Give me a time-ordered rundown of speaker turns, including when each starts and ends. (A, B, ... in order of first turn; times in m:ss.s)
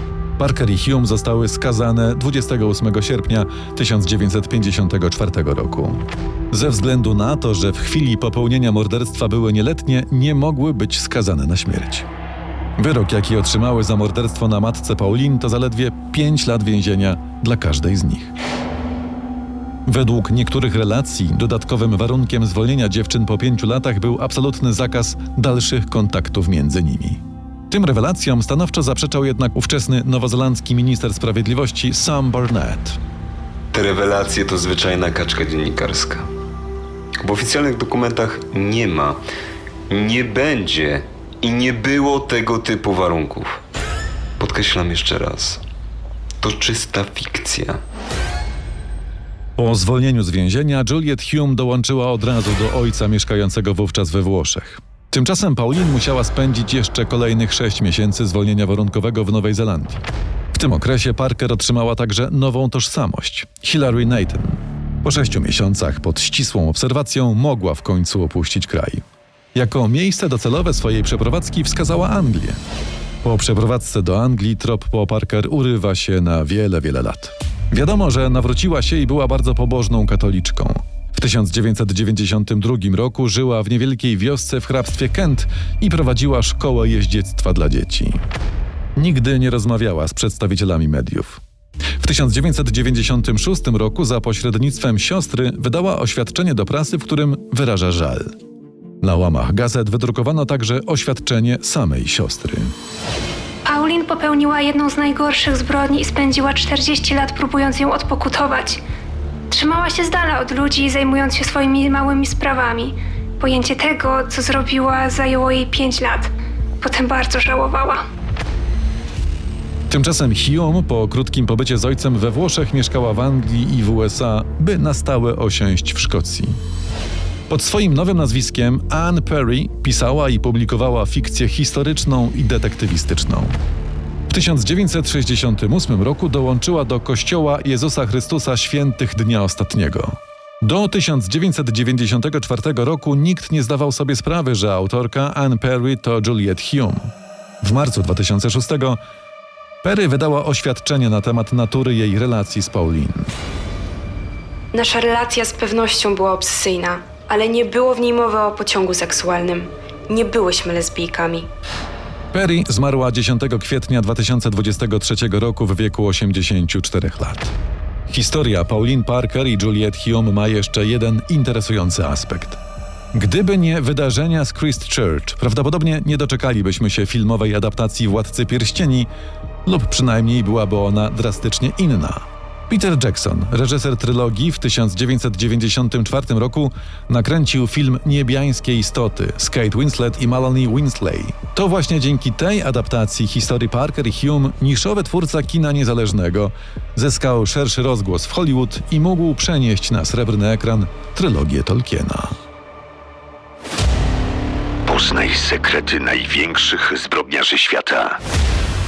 0:00.4-0:12.1 A
0:12.8-0:18.3 A
0:19.8-0:33.0 A
0:33.7-0:36.2 B
0:37.2-0:39.2 B
0:39.9-0:43.6 B
0:44.4-0:45.6 B
0:46.4-0:47.8 B
0:49.6-1:00.0 A
1:00.5-1:09.0 A
1:09.5-1:12.6 A
1:13.2-1:28.2 A
1:29.0-1:31.4 A
1:32.0-1:38.3 A
1:39.0-1:42.7 A
1:43.6-1:48.8 C
1:49.5-1:56.3 C
1:56.8-1:58.0 C
1:59.9-2:06.6 A
2:07.5-2:13.6 A
2:14.3-2:27.1 A
2:27.6-2:29.0 A
2:29.8-2:33.3 A
2:34.7-2:41.5 D
2:42.3-2:47.5 A
2:48.1-2:52.6 A
2:53.1-2:59.1 A
2:59.6-3:22.3 A
3:24.9-3:28.2 E